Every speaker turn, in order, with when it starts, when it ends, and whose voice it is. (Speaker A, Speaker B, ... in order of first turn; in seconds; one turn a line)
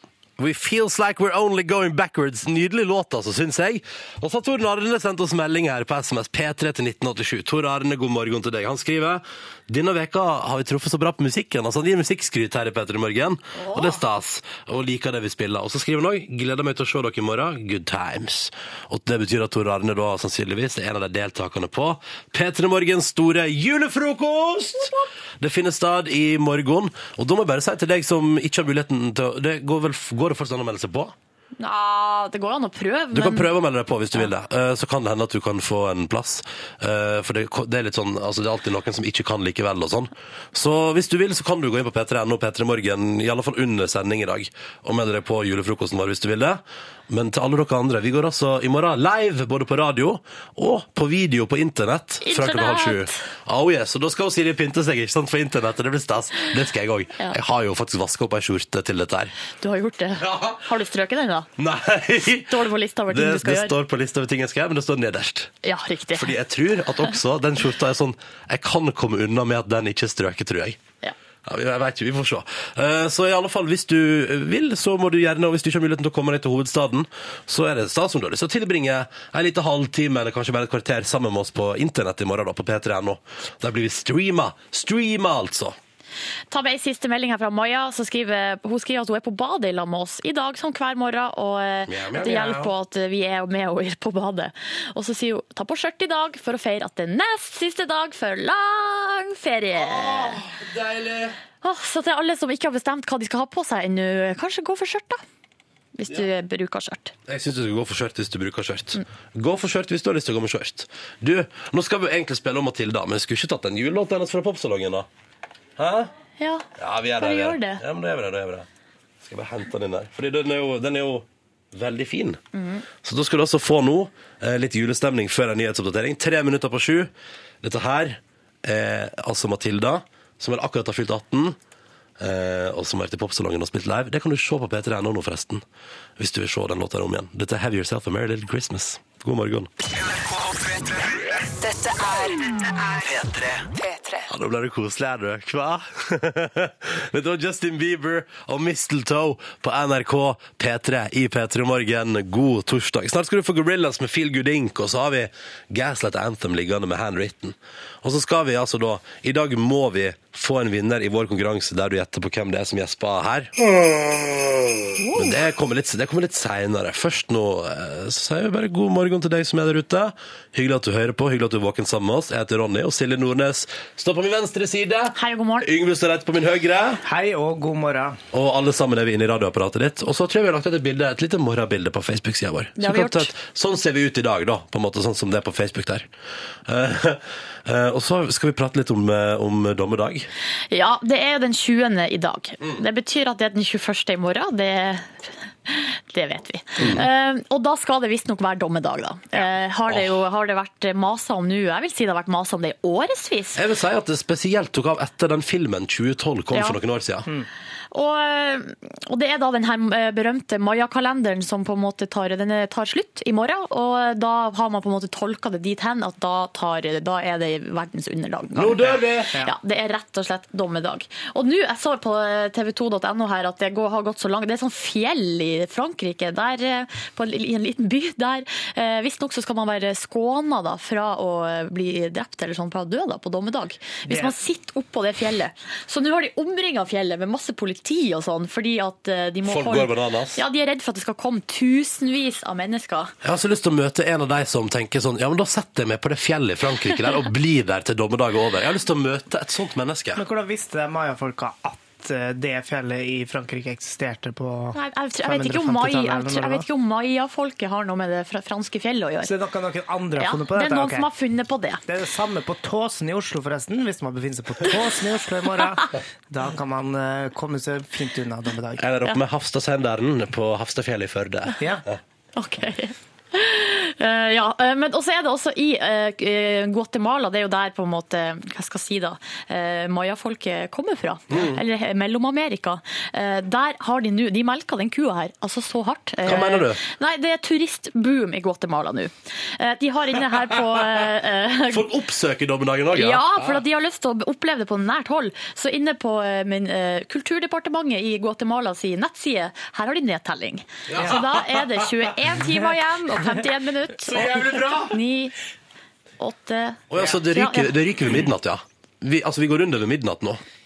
Speaker A: 0.4-31.1
Speaker B: 13.6-14.0
Speaker B: 24.8-25.0
Speaker B: 31.6-33.5
Speaker A: 33.1-59.3
Speaker B: 52.2-53.2
Speaker B: 59.6-61.5
Speaker A: 60.2-60.6
Speaker A: 61.6-65.5
Speaker B: 62.5-63.8
Speaker B: 65.6-66.3
Speaker A: 66.1-70.8
Speaker A: 71.5-85.8
Speaker B: 86.5-100.4
Speaker A: 91.9-92.7
Speaker A: 99.8-101.4
Speaker B: 101.6-105.2
Speaker B: 106.0-107.1
Speaker A: 107.3-115.1
Speaker A: 115.8-116.1
Speaker B: 116.4-117.8
Speaker A: 116.8-118.7
Speaker A: 119.2-122.4
Speaker B: 122.5-122.8
Speaker A: 123.0-127.1
Speaker A: 127.6-131.6
Speaker A: 132.2-135.6
Speaker A: 136.2-139.7
Speaker C: 140.0-144.3
Speaker A: 144.3-163.6
Speaker B: 165.0-165.4
Speaker A: 165.1-177.0
Speaker B: 175.2-175.7
Speaker D: 177.1-178.2
Speaker A: 178.3-186.1
Speaker B: 182.8-183.3
Speaker A: 186.7-190.3
Speaker B: 190.7-203.6
Speaker A: 196.8-197.1
Speaker A: 203.6-207.3
Speaker B: 206.5-206.8
Speaker B: 207.9-243.1
Speaker A: 218.6-219.3
Speaker D: 234.1-234.3
Speaker A: 239.4-240.4
Speaker A: 243.2-250.2
Speaker D: 250.2-256.7
Speaker B: 254.7-259.3
Speaker D: 259.2-261.1
Speaker B: 260.2-261.8
Speaker D: 261.9-268.8
Speaker A: 268.8-272.0
Speaker D: 271.6-271.9
Speaker B: 272.4-291.9
Speaker A: 281.3-281.6
Speaker A: 286.2-286.8
Speaker A: 291.7-293.6
Speaker B: 292.9-305.4
Speaker A: 300.9-301.9
Speaker A: 304.1-304.9
Speaker B: 306.2-307.7
Speaker A: 306.9-310.4